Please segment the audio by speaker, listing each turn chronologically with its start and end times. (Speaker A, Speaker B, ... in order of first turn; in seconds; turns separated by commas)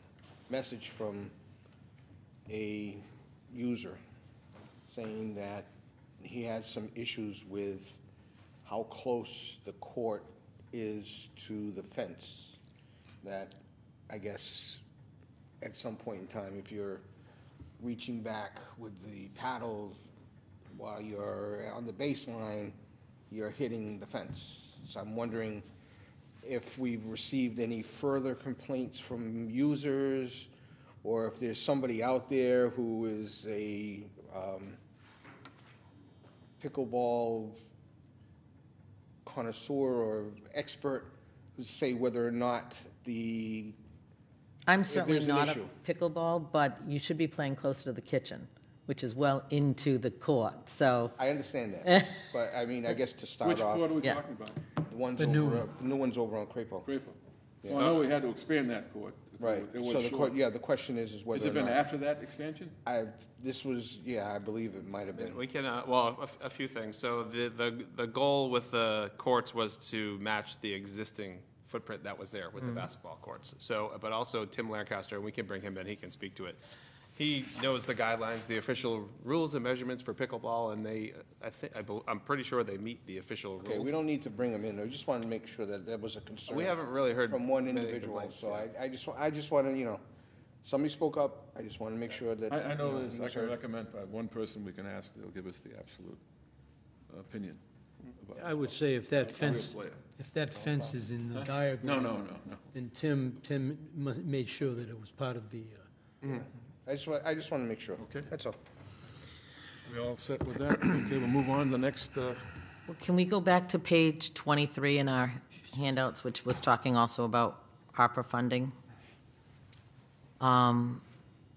Speaker A: 0.5-1.3, Speaker A: 2.5-4.0, Speaker A: 4.9-8.0, Speaker A: 8.6-12.6, Speaker A: 13.2-14.8, Speaker A: 15.6-17.0, Speaker A: 17.8-20.0, Speaker A: 20.7-22.8, Speaker A: 23.3-25.7, Speaker A: 26.4-30.5, Speaker A: 31.0-34.8, Speaker A: 36.6-37.6, Speaker A: 39.2-43.8, Speaker B: 44.7-51.1, Speaker A: 44.9-45.7, Speaker A: 51.1-54.0, Speaker B: 51.9-52.2, Speaker C: 53.4-54.7, Speaker A: 54.9-56.9, Speaker D: 55.2-55.6, Speaker C: 56.8-57.2, Speaker A: 57.6-57.9, Speaker C: 57.7-60.4, Speaker A: 59.4-61.8, Speaker C: 61.3-62.8, Speaker A: 62.8-65.4, Speaker E: 65.1-76.6, Speaker E: 77.2-84.0, Speaker A: 83.6-90.0, Speaker E: 86.5-88.7, Speaker A: 90.6-93.6, Speaker C: 92.5-96.2, Speaker C: 97.1-97.6, Speaker C: 98.2-100.1, Speaker D: 98.3-105.8, Speaker C: 100.7-102.6, Speaker A: 106.2-108.6, Speaker C: 108.0-108.3, Speaker C: 109.8-112.4, Speaker B: 112.9-118.7, Speaker B: 120.4-121.0